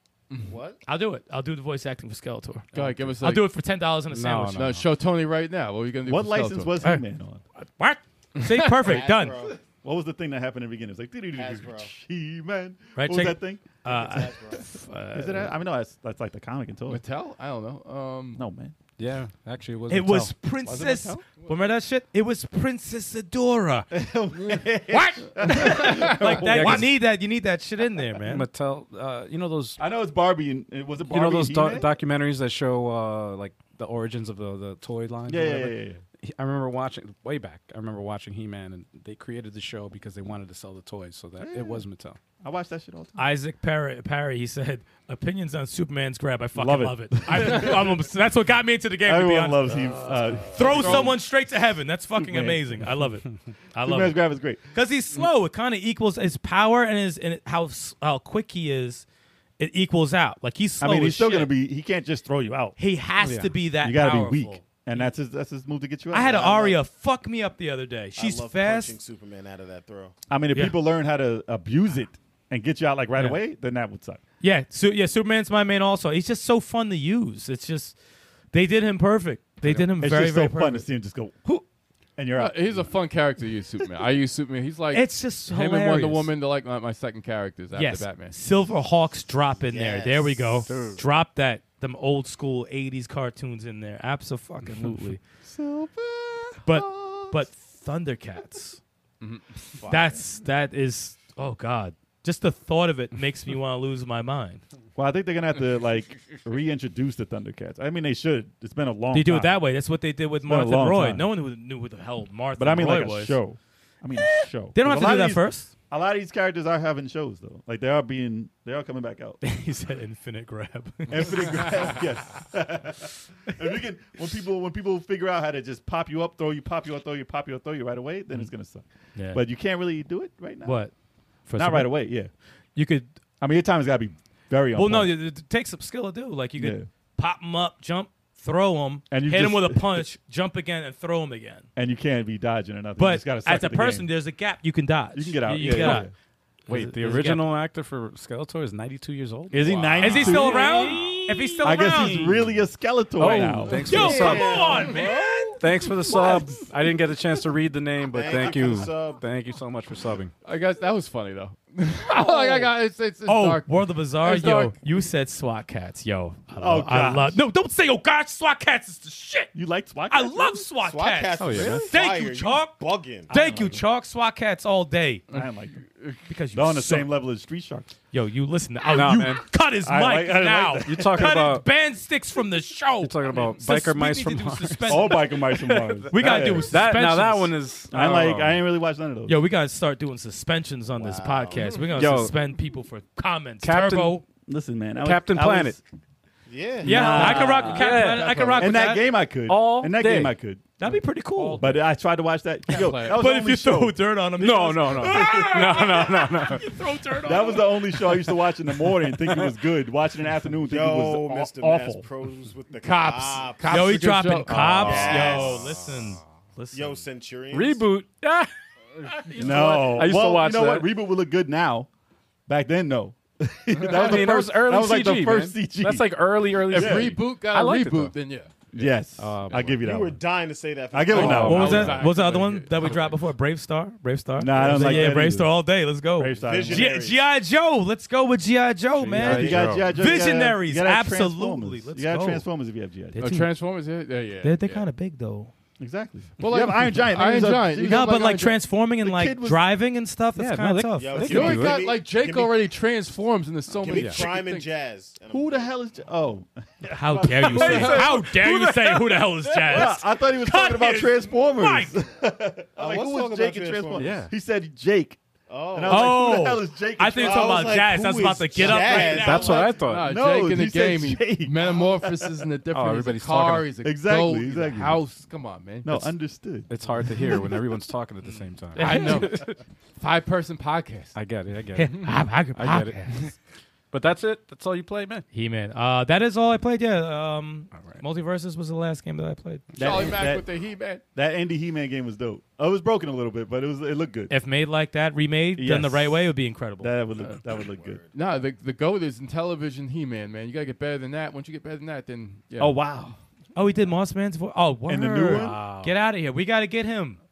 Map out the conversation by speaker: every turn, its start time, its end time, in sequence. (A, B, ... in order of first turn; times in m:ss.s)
0:00.4-0:00.8 A
0:00.9-0:04.6 B
0:02.7-0:03.5 C
0:02.7-0:03.1 D
0:04.1-0:04.9 D
0:04.5-0:06.8 C
0:06.1-0:07.4 E
0:07.6-0:09.4 B
0:08.4-0:08.9 C
0:08.8-0:09.6 A
0:09.8-0:13.8 E
0:11.3-0:11.9 A
0:13.0-0:15.5 B
0:13.8-0:14.8 A
0:15.1-0:17.0 E
0:16.9-0:18.4 C
0:18.4-0:18.8 E
0:19.0-0:20.4 D
0:19.9-0:23.9 B
0:20.6-0:21.2 E
0:21.4-0:21.7 C
0:23.9-0:26.8 E
0:24.9-0:28.5 B
0:25.4-0:26.4 C
0:26.3-0:27.0 D
0:28.2-0:29.8 D
0:29.8-0:31.9 E
0:31.1-0:42.2 D
0:35.3-0:36.0 E
0:41.4-0:41.8 E
0:42.4-0:43.2 E
0:43.2-0:59.0 B
0:46.6-0:48.0 E
0:49.0-0:51.2 E
0:50.8-0:51.1 C
0:52.2-0:52.6 E
0:53.8-0:55.3 E
0:59.6-1:01.5 B
1:00.8-1:02.8 E
1:02.8-1:05.1 B
1:03.2-1:03.6 D
1:03.8-1:06.6 E
1:06.1-1:09.0 B
1:06.2-1:06.8 A
1:08.2-1:10.2 A
1:10.3-1:14.2 E
1:14.4-1:18.0 B
1:18.5-1:20.9 B
1:19.6-1:21.6 E
1:22.2-1:22.9 E
1:22.3-1:28.4 C
1:24.9-1:26.3 B
1:27.7-1:35.2 B
1:29.7-1:30.8 A
1:30.6-1:31.1 D
1:35.4-1:37.4 E
1:36.6-1:38.8 B
1:39.8-1:40.2 A
1:39.8-1:44.6 B
1:45.0-1:49.6 E
1:49.1-1:53.4 B
1:50.4-1:51.3 E
1:52.6-1:59.4 E
1:54.2-1:55.7 B
1:59.4-2:02.0 B
2:01.1-2:10.8 E
2:09.2-2:09.4 B
2:10.6-2:10.9 B
2:11.5-2:13.1 B
2:11.6-2:12.3 E
2:13.4-2:15.2 E
2:14.7-2:21.7 B
2:16.6-2:16.9 E
2:19.1-2:20.1 E
2:21.8-2:24.1 E
2:23.0-2:26.1 B
2:25.1-2:26.1 E
2:25.5-2:26.1 D
2:26.7-2:32.6 D
2:26.7-2:27.5 B
2:29.5-2:30.7 E
2:29.9-2:32.4 B
2:31.6-2:34.1 E
2:33.2-2:34.8 D
2:33.8-2:35.7 B
2:33.8-2:35.6 A
2:35.6-2:40.3 D
2:38.0-2:39.2 A
2:40.4-2:44.8 C
2:42.1-2:42.7 B
2:43.3-2:49.5 B
2:46.6-2:47.4 E
2:49.5-2:50.6 E
2:50.1-2:55.3 B
2:50.8-2:53.3 A
2:51.4-2:51.9 D
2:53.3-2:53.8 E
2:55.3-2:55.8 E
2:55.3-2:56.2 C
2:56.3-2:57.1 B
2:56.5-2:57.9 E
2:58.1-3:07.6 B
2:58.9-2:59.5 D
2:59.8-3:01.3 E
3:00.8-3:01.7 D
3:03.0-3:08.6 D
3:04.9-3:06.8 E
3:07.9-3:09.4 E
3:09.3-3:14.2 B
3:11.0-3:12.0 A
3:11.9-3:12.4 D
3:13.6-3:14.2 D
3:14.5-3:15.8 E
3:15.0-3:15.8 D
3:16.5-3:17.9 A
3:16.8-3:17.6 E
3:16.8-3:19.2 B
3:16.9-3:18.6 D
3:17.7-3:18.7 C
3:18.6-3:20.7 E
3:19.4-3:20.4 D
3:20.8-3:21.7 B
3:21.4-3:21.7 D
3:21.6-3:24.0 E
3:22.7-3:23.2 C
3:22.8-3:28.3 B
3:24.4-3:26.8 D
3:27.2-3:27.6 A
3:27.2-3:32.1 E
3:30.6-3:33.9 A
3:32.8-3:35.4 C
3:33.7-3:37.0 B
3:34.5-3:36.1 D
3:34.8-3:35.8 A
3:36.7-3:37.9 A
3:37.5-3:38.5 D
3:39.1-3:40.9 D
3:39.4-3:41.9 E
3:42.5-3:46.2 E
3:43.8-3:44.3 C
3:43.8-3:48.1 D
3:46.7-3:49.0 C
3:46.7-3:47.2 E
3:48.7-3:50.2 E
3:49.2-3:49.8 D
3:49.8-3:51.9 A
3:50.9-3:52.1 E
3:51.1-3:53.1 C
3:51.2-3:52.1 D
3:51.2-4:02.5 B
3:54.4-3:55.6 E
3:54.7-3:55.0 D
3:56.1-3:57.0 E
3:56.4-3:57.2 A
3:59.0-4:00.0 D
3:59.2-4:03.2 E
4:03.1-4:03.5 B
4:03.2-4:04.9 C
4:04.4-4:05.5 B
4:05.8-4:08.2 E
4:06.4-4:08.6 C
4:07.8-4:11.6 B
4:09.0-4:09.6 E
4:10.4-4:11.9 D
4:11.0-4:12.6 A
4:11.2-4:14.7 C
4:13.8-4:15.8 A
4:13.9-4:14.3 D
4:15.3-4:18.0 E
4:16.8-4:22.0 B
4:17.4-4:20.0 D
4:19.7-4:25.2 E
4:22.8-4:24.2 A
4:24.0-4:24.3 D
4:25.5-4:26.4 A
4:25.7-4:27.7 E
4:25.9-4:29.7 B
4:27.2-4:29.7 A
4:28.6-4:30.2 D
4:28.7-4:32.4 E
4:29.8-4:36.2 C
4:32.7-4:33.7 D
4:33.8-4:35.0 E
4:35.8-4:37.3 E
4:36.7-4:39.6 D
4:38.7-4:39.3 B
4:38.8-4:41.2 C
4:41.1-4:43.3 D
4:41.8-4:43.3 B
4:43.9-4:45.3 D
4:45.3-4:49.7 B
4:47.7-4:48.0 D
4:49.8-4:50.5 E
4:49.8-4:51.0 C
4:51.1-4:54.3 E
4:54.3-4:57.0 B
4:55.6-4:58.0 E
4:57.2-4:58.4 A
4:58.1-5:02.8 C
5:02.6-5:03.2 E
5:03.6-5:07.2 B
5:04.9-5:05.6 E
5:05.3-5:06.0 D